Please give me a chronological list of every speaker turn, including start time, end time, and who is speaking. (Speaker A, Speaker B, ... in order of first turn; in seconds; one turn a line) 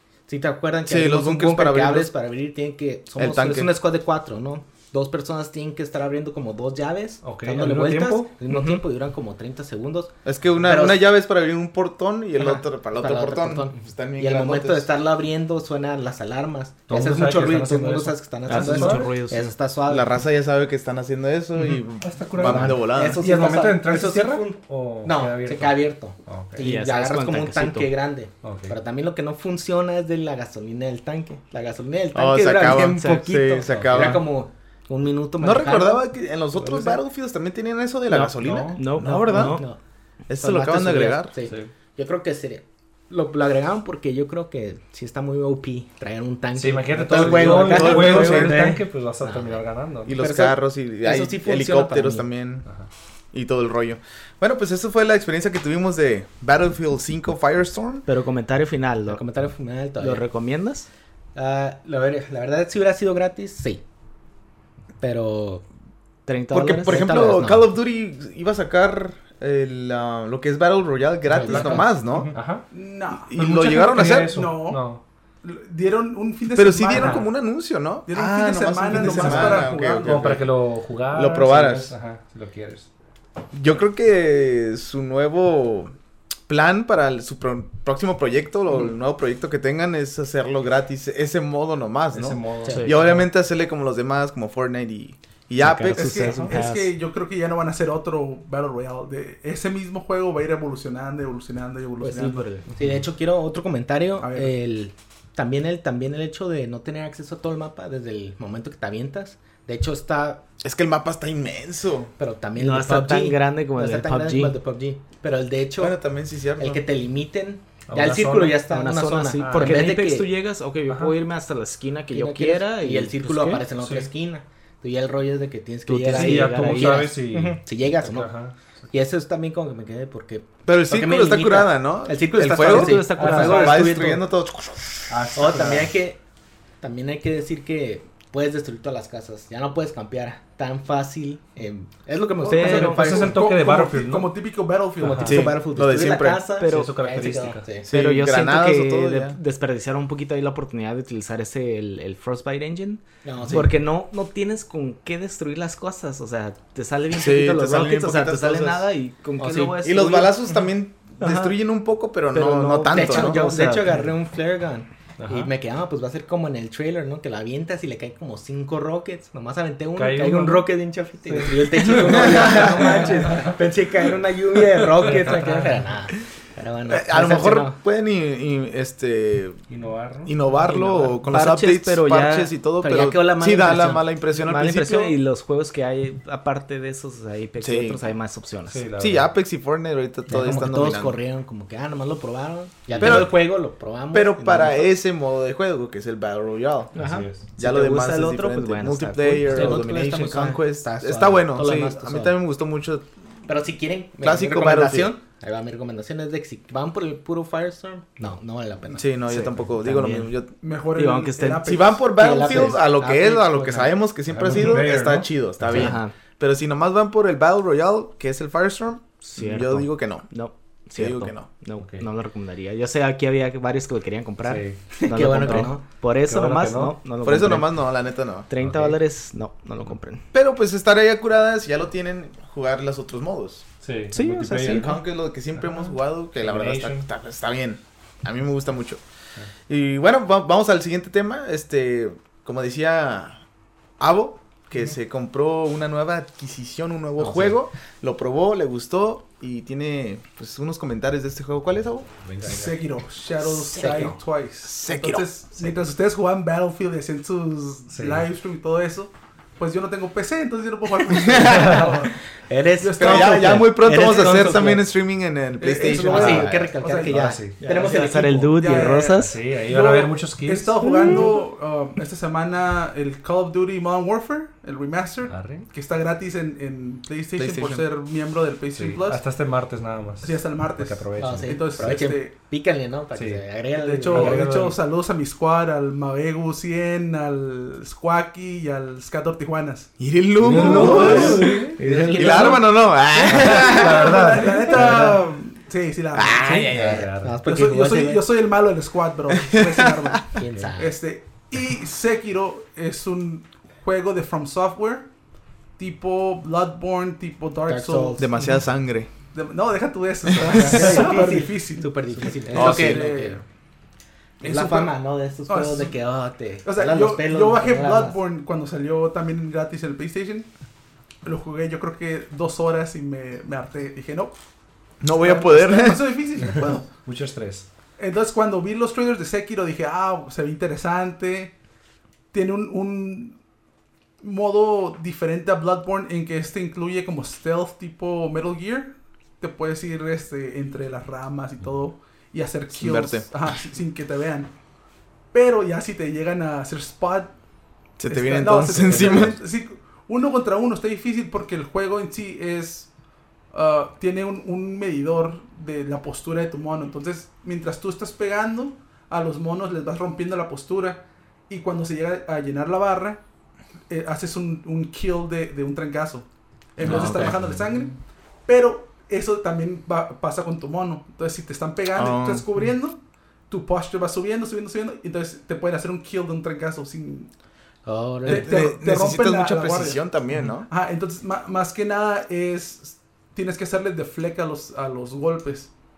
Speaker A: 0.3-11.1
Speaker B: 0.9-2.1
Speaker B: 3.2-3.8
Speaker C: 7.2-8.3
Speaker D: 8.5-8.8
Speaker B: 10.2-14.9
Speaker A: 12.4-20.1
Speaker C: 16.9-19.1
Speaker D: 18.5-19.5
Speaker B: 19.9-23.2
Speaker C: 21.6-26.6
Speaker A: 22.4-36.0
Speaker D: 26.6-27.9
Speaker C: 28.4-28.8
Speaker B: 32.1-34.2
Speaker D: 32.7-33.1
Speaker C: 33.7-34.2
Speaker B: 35.4-39.6
Speaker C: 36.6-36.9
Speaker D: 38.1-39.6
Speaker C: 38.4-38.8
Speaker A: 39.1-39.8
Speaker B: 40.3-41.3
Speaker A: 40.4-52.3
Speaker C: 41.4-41.7
Speaker C: 46.6-50.2
Speaker B: 47.1-48.6
Speaker B: 50.1-52.6
Speaker B: 53.3-58.1
Speaker D: 58.1-59.2
Speaker A: 59.1-60.2
Speaker D: 60.0-60.9
Speaker A: 61.4-63.8
Speaker A: 65.0-65.6
Speaker D: 66.2-67.2
Speaker B: 66.5-72.3
Speaker A: 66.8-67.7
Speaker A: 71.3-72.4
Speaker C: 71.3-72.7
Speaker E: 72.7-74.9
Speaker B: 73.2-74.4
Speaker C: 73.4-75.0
Speaker E: 75.4-77.3
Speaker B: 76.5-80.5
Speaker E: 78.1-80.4
Speaker C: 78.9-82.9
Speaker B: 81.1-81.9
Speaker B: 83.5-85.9
Speaker B: 86.5-96.3
Speaker C: 92.1-93.3
Speaker D: 92.7-93.0
Speaker D: 95.6-96.9
Speaker E: 95.9-102.5
Speaker C: 96.3-96.5
Speaker A: 102.0-110.4
Speaker D: 102.1-102.6
Speaker E: 104.2-104.5
Speaker B: 110.6-112.1
Speaker A: 112.2-116.0
Speaker D: 112.6-114.6
Speaker B: 115.8-116.8
Speaker A: 116.6-120.3
Speaker C: 117.9-118.6
Speaker D: 118.6-123.6
Speaker C: 119.4-119.9
Speaker C: 120.9-121.1
Speaker A: 122.1-128.3
Speaker C: 123.8-124.1
Speaker D: 125.9-127.1
Speaker C: 126.1-128.5
Speaker A: 128.9-134.2
Speaker B: 130.7-135.2
Speaker D: 132.5-134.2
Speaker C: 133.2-133.9
Speaker C: 135.1-135.9
Speaker A: 135.3-136.2
Speaker A: 136.8-143.4
Speaker E: 142.4-145.5
Speaker D: 142.4-143.2
Speaker C: 142.7-144.3
Speaker C: 145.0-145.5
Speaker A: 145.1-147.9
Speaker B: 145.2-146.4
Speaker D: 146.6-147.0
Speaker C: 146.6-147.7
Speaker B: 147.9-149.4
Speaker D: 147.9-160.4
Speaker A: 153.2-153.7
Speaker B: 157.1-158.9
Speaker A: 159.4-159.8
Speaker B: 159.8-163.4
Speaker D: 161.2-161.5
Speaker D: 162.3-163.9
Speaker A: 162.9-177.8
Speaker C: 165.2-165.5
Speaker C: 169.9-170.7
Speaker C: 171.2-173.5
Speaker B: 172.1-172.9
Speaker C: 175.0-175.9
Speaker B: 176.9-179.6
Speaker C: 179.7-180.3
Speaker B: 180.2-185.2
Speaker A: 180.6-181.2
Speaker D: 181.3-182.5
Speaker A: 182.8-184.1
Speaker D: 184.3-188.8
Speaker B: 187.6-188.0
Speaker C: 188.7-189.3
Speaker B: 189.0-191.2
Speaker A: 190.3-194.9
Speaker C: 192.9-193.3
Speaker B: 193.0-193.4
Speaker B: 194.1-196.9
Speaker C: 196.9-197.5
Speaker A: 196.9-197.3
Speaker B: 197.6-203.1
Speaker D: 197.6-200.0
Speaker A: 199.5-202.4
Speaker A: 203.5-210.3
Speaker B: 204.2-205.1
Speaker B: 208.9-210.5
Speaker E: 210.6-212.1
Speaker D: 210.9-211.8
Speaker B: 211.6-220.3
Speaker A: 212.1-214.0
Speaker C: 214.2-215.9
Speaker D: 215.7-216.1
Speaker A: 215.7-216.0
Speaker D: 219.2-227.9
Speaker B: 221.0-221.5
Speaker C: 221.8-222.1
Speaker C: 224.4-224.9
Speaker A: 224.9-225.8
Speaker C: 226.2-227.0
Speaker B: 227.2-228.5
Speaker D: 228.5-230.2
Speaker C: 228.6-229.0
Speaker B: 230.3-233.7
Speaker C: 233.8-234.9
Speaker D: 234.1-234.9
Speaker B: 234.6-239.0
Speaker C: 235.6-237.0
Speaker B: 239.7-243.4
Speaker B: 244.0-252.1
Speaker A: 247.2-247.6
Speaker C: 252.2-252.8
Speaker E: 252.4-262.2
Speaker B: 253.4-254.0
Speaker A: 253.7-254.2
Speaker B: 254.6-255.2
Speaker C: 257.9-258.3
Speaker B: 261.1-261.8
Speaker C: 261.4-262.0
Speaker A: 262.4-264.9
Speaker E: 262.8-264.6
Speaker B: 263.0-266.7
Speaker E: 265.6-279.2
Speaker A: 265.9-268.9
Speaker C: 267.1-267.6
Speaker D: 267.6-269.4
Speaker C: 269.1-271.2
Speaker D: 271.0-271.3
Speaker C: 275.3-275.7
Speaker B: 277.4-277.9
Speaker C: 278.7-281.9
Speaker E: 280.2-282.3
Speaker A: 281.2-284.5
Speaker C: 283.1-283.5
Speaker E: 283.7-289.9
Speaker C: 284.1-284.8
Speaker B: 290.0-294.2
Speaker C: 290.4-291.8
Speaker E: 290.5-292.5
Speaker A: 290.5-292.9
Speaker C: 293.2-295.1
Speaker E: 293.3-296.8
Speaker A: 294.7-295.2
Speaker B: 296.1-297.0
Speaker A: 296.5-298.3
Speaker C: 296.6-297.4
Speaker E: 297.4-305.1
Speaker B: 299.3-300.2
Speaker A: 300.3-301.0
Speaker E: 305.8-308.3
Speaker A: 307.7-308.3
Speaker B: 308.2-309.1
Speaker E: 309.3-313.4
Speaker B: 310.3-310.9
Speaker A: 310.5-313.4
Speaker B: 312.5-313.1
Speaker E: 314.4-315.0
Speaker A: 314.4-318.2
Speaker E: 315.5-316.0
Speaker E: 316.6-320.5
Speaker E: 321.2-324.3
Speaker B: 325.0-326.0
Speaker E: 325.2-326.9
Speaker C: 327.0-327.7
Speaker E: 328.0-331.5
Speaker E: 332.3-333.4
Speaker E: 334.2-344.5
Speaker B: 342.7-343.3
Speaker E: 345.3-347.3
Speaker B: 348.0-349.4
Speaker E: 348.1-352.9
Speaker C: 348.9-349.3
Speaker E: 353.5-363.2
Speaker E: 363.9-377.3
Speaker D: 366.8-367.4
Speaker B: 366.8-367.3
Speaker C: 366.9-367.8
Speaker B: 371.9-372.5
Speaker A: 377.9-378.6
Speaker E: 378.2-380.1
Speaker B: 378.2-380.7
Speaker E: 380.6-385.7